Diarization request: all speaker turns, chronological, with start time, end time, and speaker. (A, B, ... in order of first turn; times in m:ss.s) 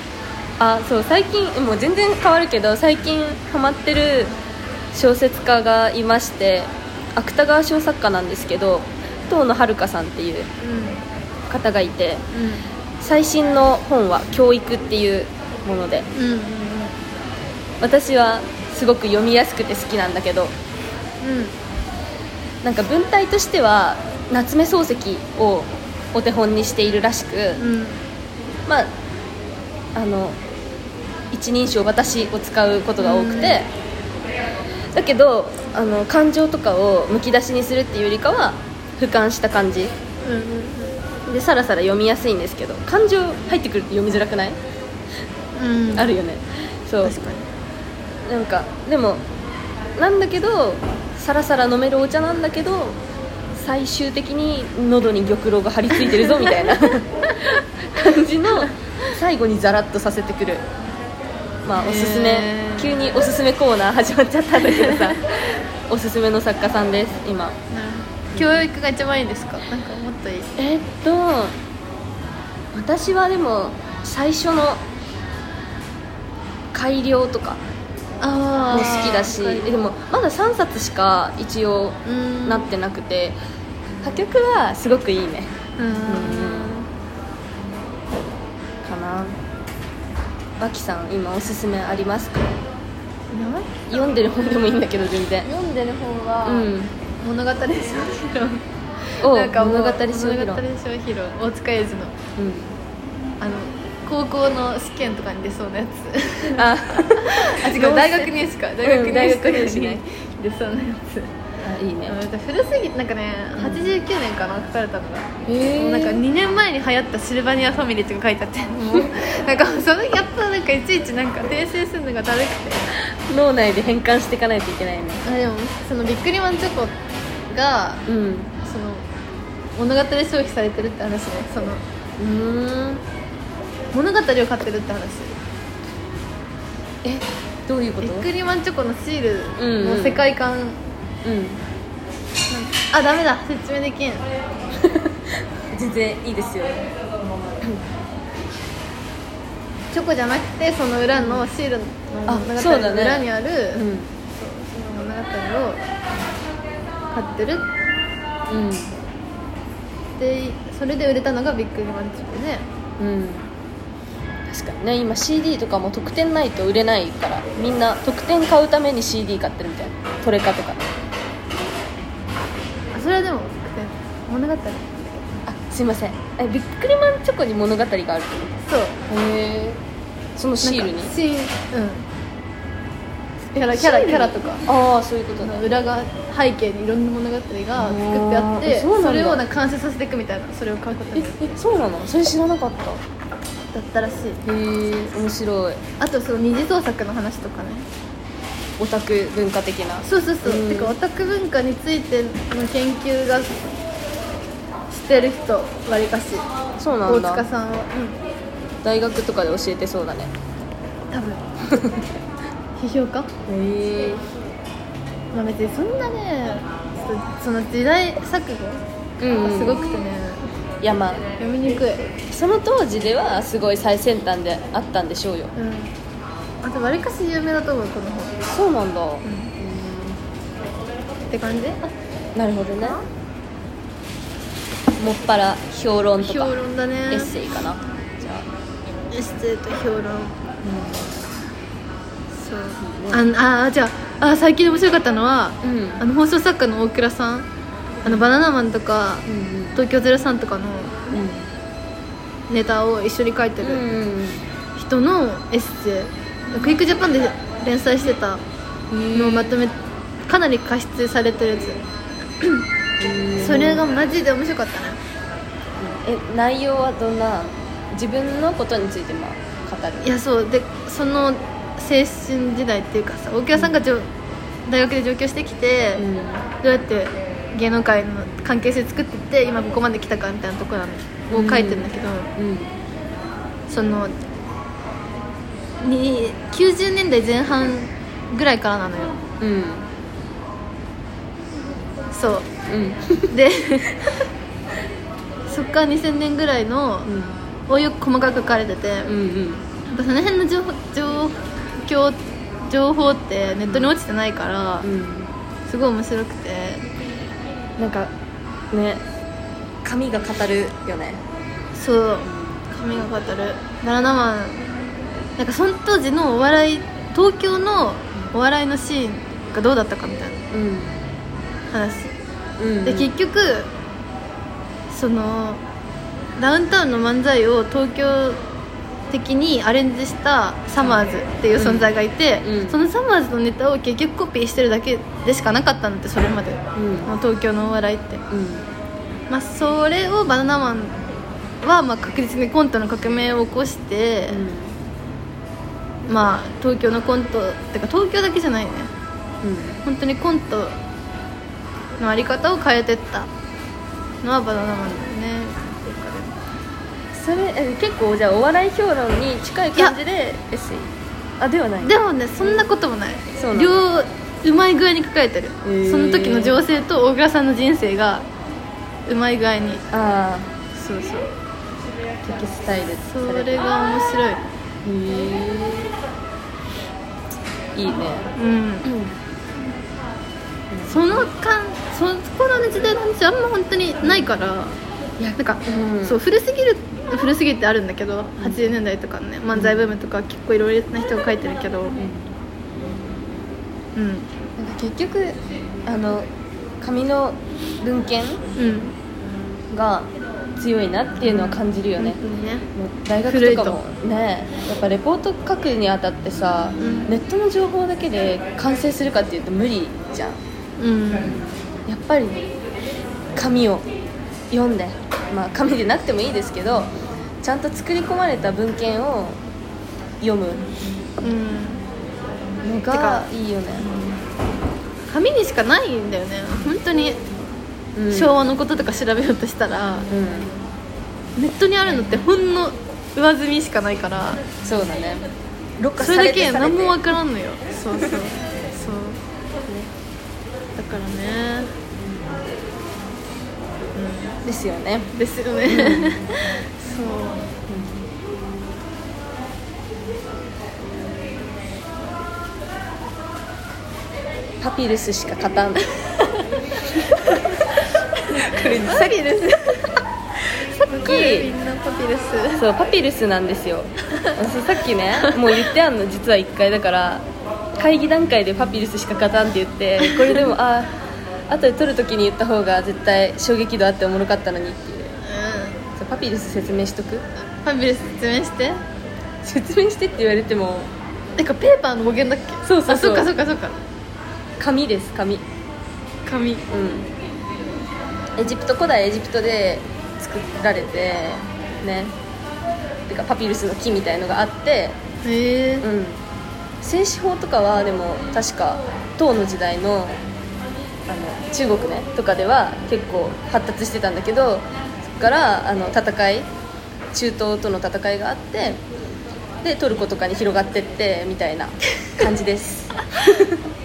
0:00.6-0:04.3 A
0:04.9-0:10.5 A
0:10.6-0:11.0 B
0:11.5-0:12.2 A
0:12.3-0:12.7 B
0:13.0-0:16.1 A
0:16.1-0:17.0 B
0:17.8-0:20.5 A
0:21.2-0:21.6 B
0:22.6-0:27.6 A
0:27.6-0:28.0 B
0:29.9-0:30.4 A
0:31.3-0:33.7 A
0:33.0-0:33.6 B
0:34.9-0:39.9 A
0:40.2-0:41.0 B
0:41.2-0:44.6 A
0:45.6-0:46.1 B
0:45.9-0:47.2 A
0:47.0-0:47.5 B
0:48.2-0:49.2 A
0:50.0-0:53.0 A
0:53.5-1:00.6 A
0:56.0-0:56.7 B
0:57.3-0:57.6 B
1:01.6-1:05.3 A
1:01.8-1:03.1 B
1:04.6-1:05.2 B
1:05.9-1:07.6 A
1:07.7-1:10.5 B
1:08.3-1:08.6 A
1:10.6-1:11.6 A
1:12.7-1:14.8 A
1:16.7-1:17.6 A
1:18.2-1:19.7 B
1:18.7-1:23.4 A
1:22.0-1:22.7 B
1:24.0-1:25.5 A
1:25.8-1:26.9 B
1:26.1-1:26.7 A
1:28.8-1:29.4 A
1:30.6-1:32.5 A
1:33.3-1:33.9 B
1:33.9-1:35.5 A
1:35.4-1:42.1 B
1:36.4-1:36.9 A
1:39.2-1:40.6 A
1:42.4-1:42.8 A
1:43.4-1:51.3 B
1:46.5-1:50.0 A
1:51.6-1:52.2 A
1:52.1-2:02.9 B
1:53.6-1:53.9 A
1:55.4-1:56.2 A
2:03.2-2:05.2 A
2:05.2-2:06.9 B
2:07.5-2:08.0 B
2:08.1-2:08.5 A
2:08.6-2:09.1 B
2:09.8-2:11.8 B
2:12.2-2:13.0 A
2:13.9-2:15.3 B
2:17.0-2:18.3 A
2:18.0-2:20.8 B
2:19.6-2:20.2 A
2:21.2-2:21.6 A
2:22.5-2:24.2 B
2:24.7-2:26.9 A
2:29.9-2:35.8 B
2:31.1-2:31.5 A
2:32.3-2:34.1 A
2:37.1-2:37.7 B
2:38.5-2:38.9 A
2:40.2-2:42.6 B
2:43.0-2:43.5 A
2:44.5-2:50.8 A
2:52.9-2:55.4 B
2:55.4-2:59.8 A
2:58.7-2:59.0 B
3:00.4-3:01.1 A
3:00.6-3:02.1 B
3:03.5-3:04.6 B
3:03.5-3:05.6 A
3:05.4-3:11.5 B
3:07.8-3:09.4 A
3:11.1-3:13.0 A
3:13.7-3:14.4 B
3:14.4-3:15.8 A
3:16.0-3:17.9 B
3:18.8-3:21.0 A
3:20.0-3:23.7 B
3:24.9-3:26.5 B
3:26.8-3:27.4 A
3:27.0-3:28.2 B
3:28.8-3:30.3 A
3:31.1-3:31.4 B
3:31.6-3:32.0 A
3:32.8-3:33.3 B
3:33.5-3:34.2 A
3:35.3-3:38.8 B
3:39.2-3:39.8 A
3:39.4-3:40.4 B
3:40.8-3:41.2 A
3:41.4-3:42.0 B
3:42.3-3:45.5 A
3:45.6-3:45.9 B
3:46.6-3:48.4 B
3:48.4-3:50.2 A
3:49.2-3:49.5 B
3:51.3-3:51.9 B
3:52.3-3:53.0 A
3:55.0-3:56.5 A
3:56.2-3:57.3 B
3:57.1-3:58.5 A
3:59.1-4:00.4 B
4:00.6-4:01.1 A
4:02.3-4:07.5 B
4:02.8-4:03.2 A
4:05.6-4:06.0 A
4:08.0-4:11.0 B
4:09.2-4:09.8 A
4:11.1-4:11.5 A
4:12.5-4:13.8 B
4:13.6-4:14.4 A
4:14.8-4:18.4 B
4:18.9-4:19.6 A
4:19.1-4:21.8 B
4:23.0-4:23.8 A
4:23.4-4:25.0 B
4:25.8-4:30.2 A
4:30.0-4:34.1 B
4:33.5-4:33.8 A
4:34.7-4:36.0 B
4:36.0-4:36.5 A
4:36.6-4:42.3 B
4:41.3-4:42.8 A
4:43.7-4:44.2 B
4:45.8-4:49.2 B
4:49.4-4:49.9 A
4:52.1-4:52.5 B
4:52.7-4:53.3 A
4:53.3-4:54.2 B
4:55.5-4:57.1 B
4:57.0-4:57.4 A
4:57.7-4:59.1 B
4:59.0-4:59.6 A
4:59.9-5:04.9 B
5:03.6-5:03.9 A
5:04.8-5:05.3 A
5:05.7-5:06.8 B
5:07.8-5:08.1 A
5:08.7-5:09.0 A
5:09.8-5:11.2 A
5:11.7-5:14.6 B
5:12.2-5:12.6 A
5:15.4-5:20.4 B
5:20.5-5:20.9 A
5:21.7-5:22.1 B
5:22.6-5:23.1 A
5:22.8-5:23.7 B
5:24.9-5:25.6 B
5:26.4-5:28.4 B
5:29.1-5:38.2 B
5:31.5-5:31.9 A
5:32.4-5:32.8 A
5:36.7-5:37.1 A
5:38.3-5:38.7 A
5:39.3-5:41.0 B
5:41.6-5:44.4 B
5:44.3-5:44.8 A
5:46.1-5:48.9 B
5:49.4-5:49.8 A
5:49.8-5:50.8 B
5:52.0-5:53.3 B
5:54.2-5:56.4 B
5:57.1-6:02.6 A
6:01.8-6:08.3 B
6:03.3-6:03.8 A
6:05.6-6:06.6 A
6:09.1-6:09.8 B
6:09.9-6:10.5 A
6:10.7-6:11.3 B
6:12.2-6:13.7 A
6:13.1-6:14.4 B
6:14.8-6:15.9 A
6:17.7-6:18.3 A
6:18.4-6:18.9 B
6:18.8-6:19.1 A
6:20.7-6:21.3 A
6:20.8-6:32.0 B
6:25.6-6:26.2 A
6:28.4-6:28.7 A
6:29.5-6:29.9 A
6:32.0-6:32.3 A
6:34.0-6:34.3 B
6:34.6-6:36.3 A
6:36.8-6:38.4 A
6:38.6-6:38.9 B
6:39.7-6:42.2 A
6:41.2-6:42.7 B
6:42.7-6:50.4 A
6:43.3-6:43.8 B
6:46.8-6:47.1 B
6:50.8-6:51.4 B
6:51.2-6:52.5 A
6:53.3-6:53.9 A
6:54.5-6:59.4 A
7:00.2-7:00.7 A
7:01.2-7:01.8 B
7:02.6-7:03.9 A
7:02.9-7:03.3 B
7:03.8-7:04.1 B
7:05.1-7:07.2 B
7:08.0-7:08.4 A
7:08.1-7:10.1 B
7:10.1-7:10.5 A
7:11.4-7:14.4 B
7:14.6-7:15.3 A
7:15.8-7:17.0 A
7:16.0-7:19.2 B
7:20.8-7:21.7 B
7:22.0-7:22.4 A
7:23.9-7:24.4 B
7:24.4-7:25.1 A
7:25.1-7:27.5 B
7:25.7-7:26.2 A
7:27.7-7:28.1 A
7:34.6-7:35.9 A
7:37.0-7:37.6 A
7:38.3-7:39.2 A
7:38.4-7:39.9 B
7:40.8-7:42.6 B
7:40.8-7:41.5 A
7:42.5-7:50.9 A
7:50.0-7:50.4 B
7:51.5-7:55.1 A
7:55.2-7:55.8 B
7:56.0-7:57.2 A
7:57.6-7:58.8 B
7:59.4-8:00.9 A
8:01.4-8:03.8 B
8:02.6-8:03.3 A
8:04.6-8:05.4 A
8:06.2-8:06.6 B
8:06.7-8:07.1 A
8:08.4-8:12.1 A
8:13.1-8:15.0 A
8:15.2-8:15.9 B
8:15.8-8:16.2 A
8:16.8-8:20.2 A
8:21.1-8:26.5 A
8:27.1-8:28.8 A
8:29.6-8:33.6 A